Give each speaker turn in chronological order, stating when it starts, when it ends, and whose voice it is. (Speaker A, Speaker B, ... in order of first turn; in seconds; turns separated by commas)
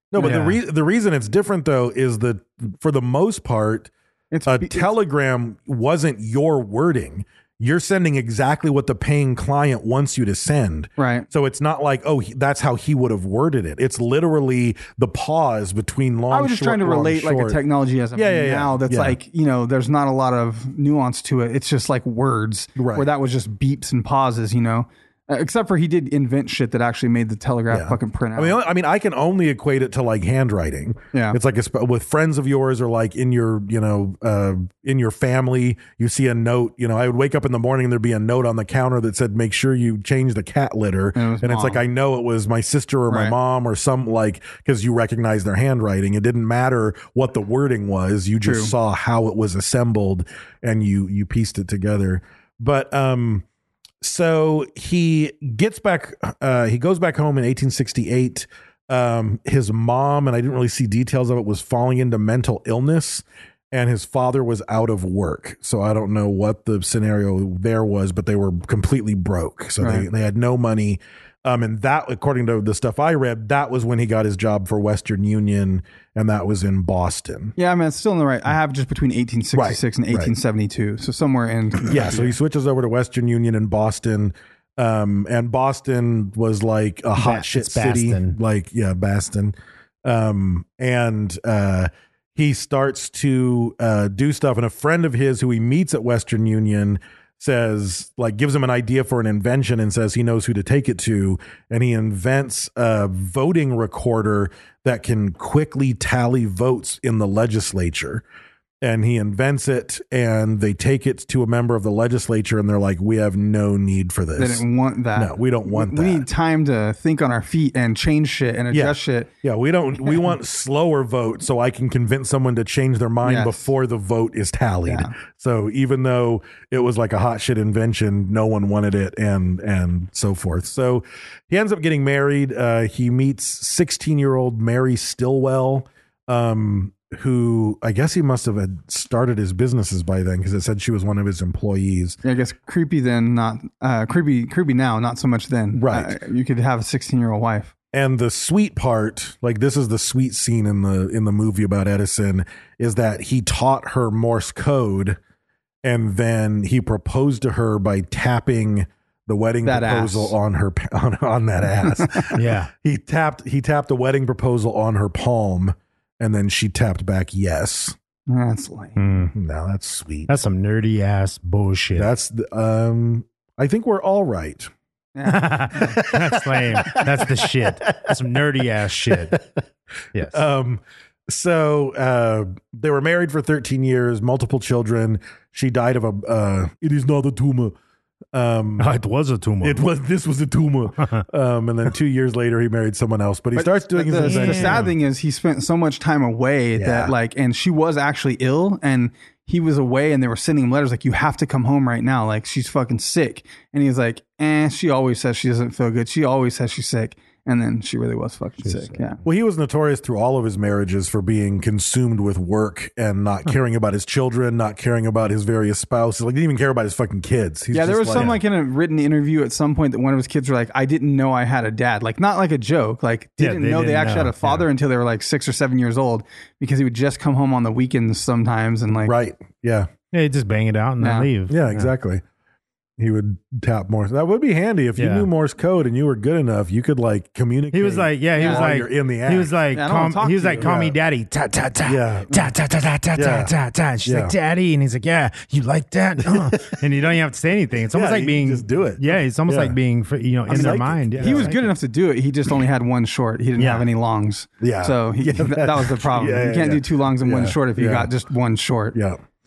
Speaker A: 0.1-3.9, Speaker B: 0.2-0.6, Speaker C: 4.3-4.9, Speaker A: 4.5-17.6, Speaker C: 11.0-11.3, Speaker C: 16.3-28.6, Speaker A: 18.1-19.2, Speaker A: 22.8-23.1, Speaker A: 27.7-53.5, Speaker C: 31.1-31.4, Speaker C: 41.1-41.8, Speaker C: 43.1-43.4, Speaker C: 48.4-48.7, Speaker A: 54.0-77.5, Speaker C: 69.8-70.1, Speaker C: 77.6-82.3, Speaker A: 79.5-80.3, Speaker A: 81.8-108.2, Speaker B: 87.2-88.4, Speaker A: 108.8-114.6, Speaker C: 114.4-119.3, Speaker A: 115.2-116.2, Speaker A: 118.7-142.2, Speaker C: 123.2-123.7, Speaker C: 124.9-125.1, Speaker C: 142.2-147.7, Speaker A: 145.7-146.2, Speaker A: 147.9-155.2, Speaker A: 155.8-168.0, Speaker C: 159.6-160.3, Speaker C: 161.9-162.3, Speaker B: 162.3-162.7, Speaker C: 168.3-169.0, Speaker B: 169.0-169.3, Speaker A: 169.3-170.3, Speaker B: 170.3-172.1, Speaker A: 172.0-174.7, Speaker C: 175.2-176.0, Speaker B: 175.3-179.4, Speaker A: 175.7-178.2, Speaker A: 179.1-179.4, Speaker B: 180.1-180.4, Speaker A: 180.3-187.8, Speaker A: 188.3-188.9, Speaker B: 188.8-189.9, Speaker A: 189.6-194.9, Speaker C: 193.6-209.2, Speaker B: 194.2-194.9, Speaker A: 196.8-197.1, Speaker B: 208.7-209.0, Speaker A: 209.2-218.4, Speaker C: 217.7-229.2, Speaker B: 218.2-218.4, Speaker B: 223.4-224.7, Speaker A: 229.1-229.9, Speaker B: 230.1-231.9, Speaker C: 231.0-231.3, Speaker A: 231.5-232.2, Speaker A: 233.0-239.6, Speaker B: 235.0-235.3, Speaker B: 237.7-251.7, Speaker C: 238.3-238.7, Speaker C: 239.7-240.7, Speaker A: 240.6-241.0, Speaker A: 241.8-242.3, Speaker A: 243.1-243.5, Speaker A: 244.0-244.3, Speaker A: 246.2-246.8, Speaker A: 247.9-249.8, Speaker A: 250.5-251.5, Speaker C: 250.5-259.0, Speaker B: 253.6-253.9, Speaker A: 254.6-258.1, Speaker A: 258.9-259.2